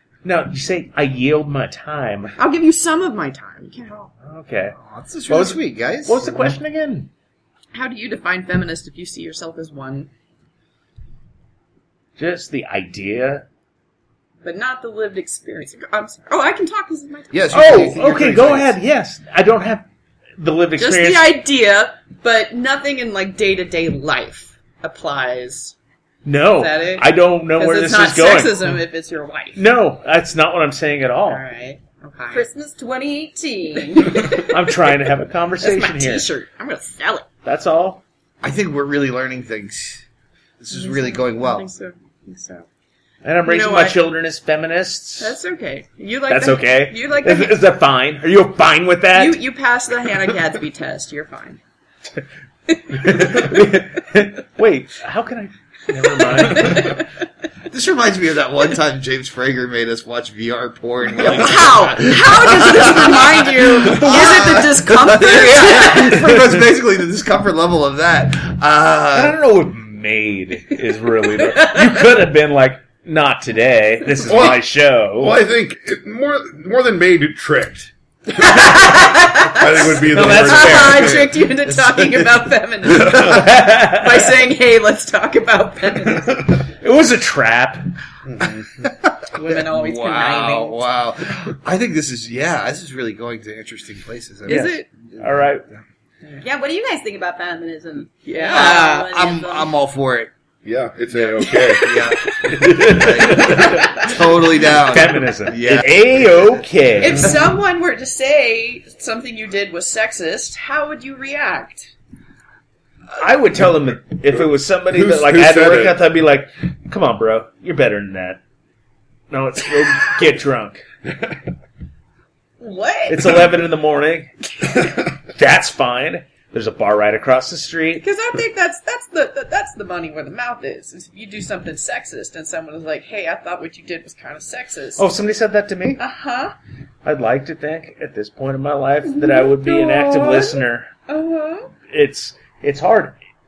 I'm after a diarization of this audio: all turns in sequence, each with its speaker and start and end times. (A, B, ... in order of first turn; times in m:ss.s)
0:00.2-0:02.4 A
0:02.4-0:04.1 B
0:04.2-0:04.8 A
0:04.8-0:06.2 C
0:05.3-0:07.1 A
0:07.7-0:10.1 B
0:12.2-0:13.5 A
0:14.4-0:18.0 B
0:17.3-0:18.8 C
0:17.5-0:19.8 A
0:20.4-0:21.4 A
0:20.8-0:25.7 B
0:26.2-0:28.8 A
0:26.6-0:29.6 B
0:29.6-0:31.4 A
0:31.3-0:32.5 B
0:32.3-0:34.5 D
0:34.0-0:34.5 B
0:34.5-0:36.3 A
0:35.6-0:37.3 B
0:37.4-0:38.0 A
0:38.4-0:40.0 C
0:40.6-0:41.7 C
0:40.7-0:42.7 B
0:43.2-0:45.4 A
0:43.4-0:44.0 B
0:45.2-0:47.6 B
0:46.3-0:49.4 A
0:49.1-0:51.6 B
0:52.7-0:53.4 B
0:52.9-0:57.0 A
0:56.3-0:57.0 B
0:57.7-1:09.4 C
1:01.2-1:06.3 B
1:09.1-1:15.4 A
1:11.5-1:12.0 B
1:14.3-1:18.9 E
1:18.4-1:26.6 B
1:19.5-1:21.4 E
1:20.1-1:21.2 A
1:23.0-1:23.4 E
1:23.1-1:24.1 A
1:26.8-1:27.9 A
1:28.3-1:28.6 E
1:28.8-1:35.8 C
1:29.3-1:30.8 B
1:34.5-1:34.8 B
1:34.5-1:35.6 A
1:36.4-1:39.7 D
1:38.3-1:39.1 B
1:38.4-1:40.3 C
1:40.6-1:42.0 E
1:41.1-1:46.6 C
1:42.5-1:44.1 A
1:43.4-1:44.1 B
1:44.7-1:47.3 A
1:47.0-1:51.9 B
1:53.2-1:58.4 A
1:54.9-1:56.0 E
1:59.3-2:00.8 A
2:02.6-2:03.5 B
2:03.1-2:04.3 A
2:05.3-2:08.1 A
2:08.0-2:15.0 B
2:15.0-2:16.0 A
2:16.0-2:16.6 B
2:17.0-2:20.9 A
2:19.0-2:21.7 B
2:21.9-2:23.2 A